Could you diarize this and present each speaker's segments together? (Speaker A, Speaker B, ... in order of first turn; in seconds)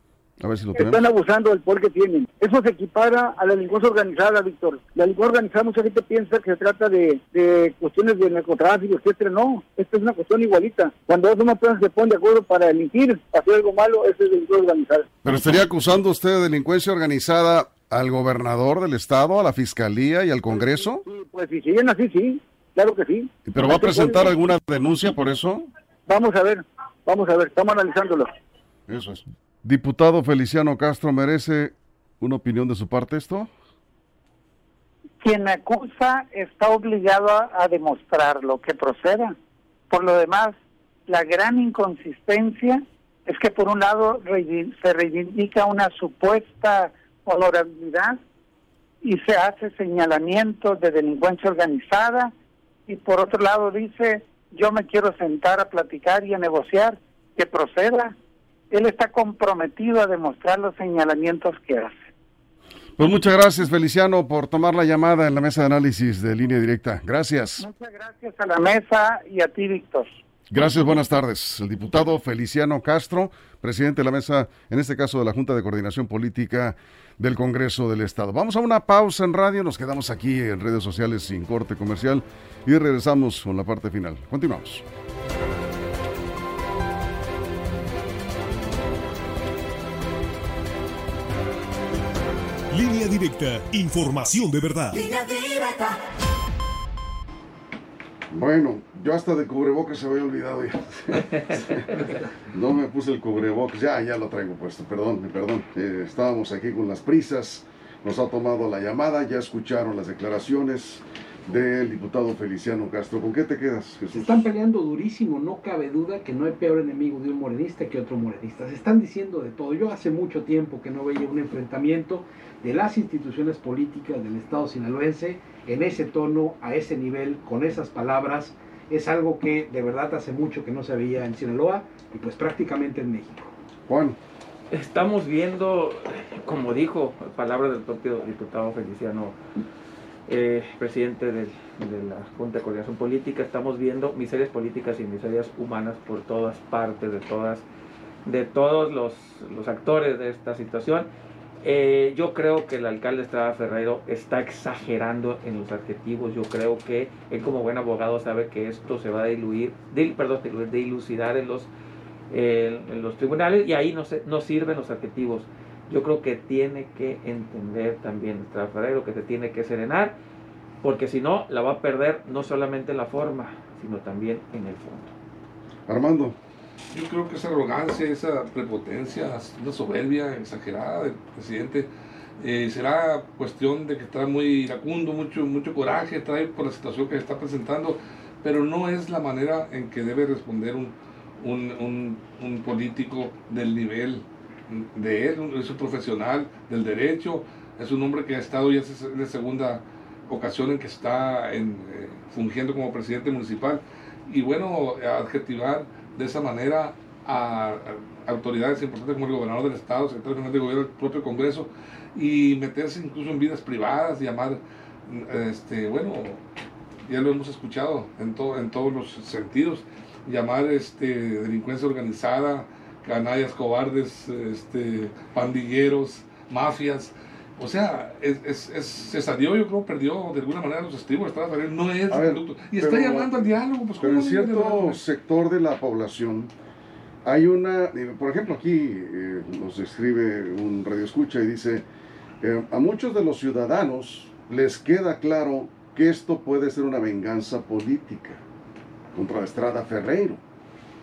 Speaker A: 0.4-1.0, 15.2-21.0, 23.5-25.7, 28.9-33.5, 63.0-67.7, 70.5-84.8, 98.3-114.4, 133.9-134.2, 175.9-176.4, 232.1-233.4, 234.0-236.5, 237.2-241.9, 242.4-248.4, 249.1-250.4
Speaker B: 0.8-15.1, 20.6-24.3, 26.1-28.3
Speaker C: 35.2-39.4, 39.9-40.5, 41.1-48.2, 49.0-52.3, 52.9-58.2, 58.7-62.0, 67.6-70.1
Speaker D: 92.7-95.2
Speaker E: 114.1-133.5
Speaker F: 134.7-139.4, 140.3-147.7, 148.3-151.1, 151.6-161.7, 162.3-170.2, 170.8-175.1
Speaker G: 176.9-216.4, 217.1-235.0